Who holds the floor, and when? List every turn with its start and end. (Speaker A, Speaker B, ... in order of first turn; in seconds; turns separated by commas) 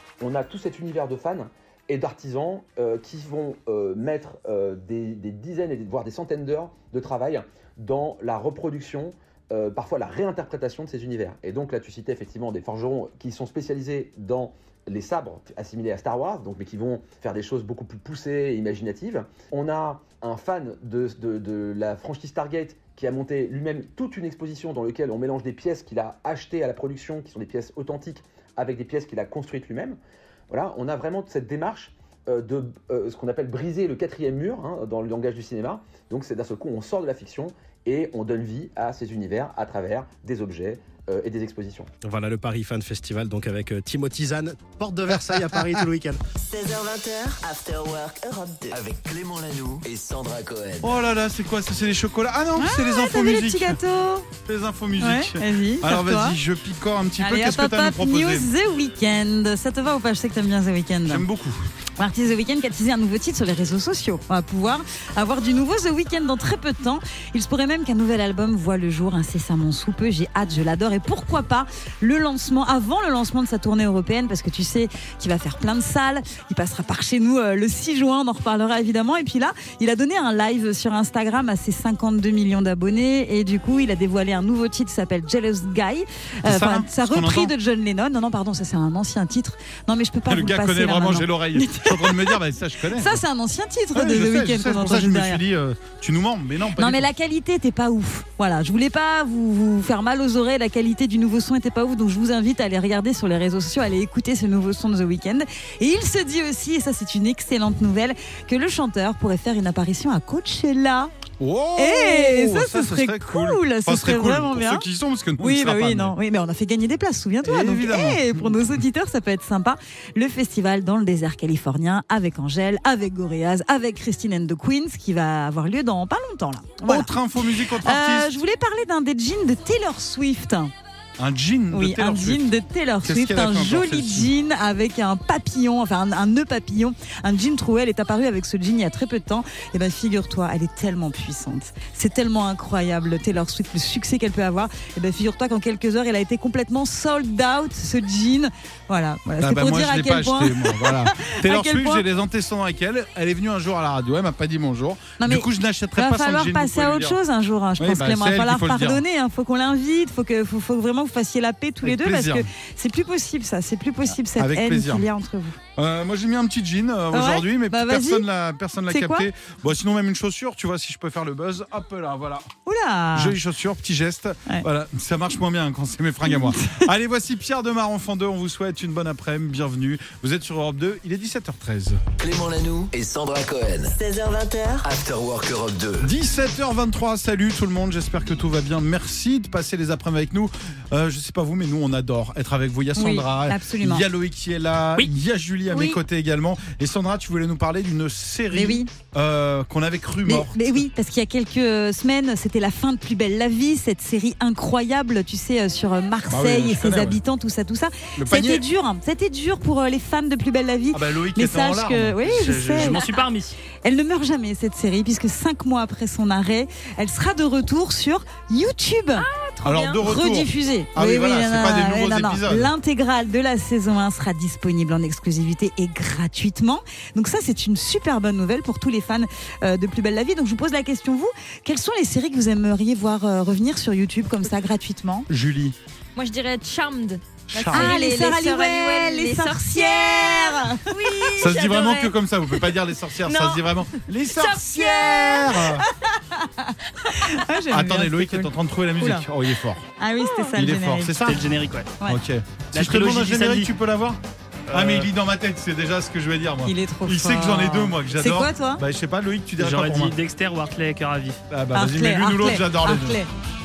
Speaker A: 0.2-30.0, Speaker A: 30.5-41.9, Speaker B: 42.0-46.2, Speaker C: 46.4-48.8, Speaker D: 48.7-51.0, Speaker E: 50.8-53.8, Speaker F: 52.6-54.3, Speaker E: 54.4-58.5, Speaker F: 55.0-56.4, Speaker F: 57.2-61.2, Speaker E: 61.0-61.6, Speaker F: 62.0-92.4, Speaker E: 86.4-87.5, Speaker E: 90.3-93.2, Speaker F: 92.9-95.4, Speaker E: 93.9-97.1, Speaker F: 96.8-111.1, Speaker E: 111.4-116.2, Speaker F: 111.8-114.9, Speaker F: 115.4-127.1, Speaker E: 117.4-118.8, Speaker E: 126.8-128.4, Speaker F: 127.8-130.7, Speaker E: 131.2-132.4, Speaker F: 131.7-152.1, Speaker E: 133.0-134.3, Speaker E: 149.4-157.2, Speaker F: 155.2-165.6, Speaker E: 157.8-159.0, Speaker E: 161.8-162.5, Speaker E: 164.4-165.1, Speaker E: 165.8-172.5, Speaker F: 167.1-168.2, Speaker F: 168.9-169.3, Speaker F: 172.7-173.4, Speaker E: 173.2-182.0, Speaker F: 176.3-176.9, Speaker D: 182.2-183.9, Speaker C: 183.9-184.9, Speaker D: 184.8-186.1, Speaker E: 186.0-200.8, Speaker F: 193.0-194.1, Speaker F: 198.5-198.9, Speaker F: 200.3-213.0, Speaker E: 206.3-207.2, Speaker E: 208.2-208.7, Speaker E: 210.9-213.0, Speaker G: 212.3-213.6, Speaker F: 213.8-219.3, Speaker H: 219.2-220.0, Speaker E: 219.6-222.7, Speaker F: 220.0-235.3, Speaker E: 235.3-235.8, Speaker H: 236.2-242.7, Speaker E: 237.5-238.0, Speaker F: 237.7-241.4, Speaker E: 241.4-245.8, Speaker H: 243.2-243.8, Speaker H: 244.3-245.7, Speaker F: 245.8-249.3, Speaker E: 247.7-249.8, Speaker F: 250.0-251.4, Speaker H: 250.2-250.5, Speaker E: 250.6-254.2, Speaker G: 251.2-252.0, Speaker G: 252.7-253.7, Speaker G: 254.7-255.1, Speaker E: 254.7-260.2, Speaker F: 256.6-258.8, Speaker G: 259.6-261.4, Speaker E: 261.5-263.2, Speaker F: 261.7-263.3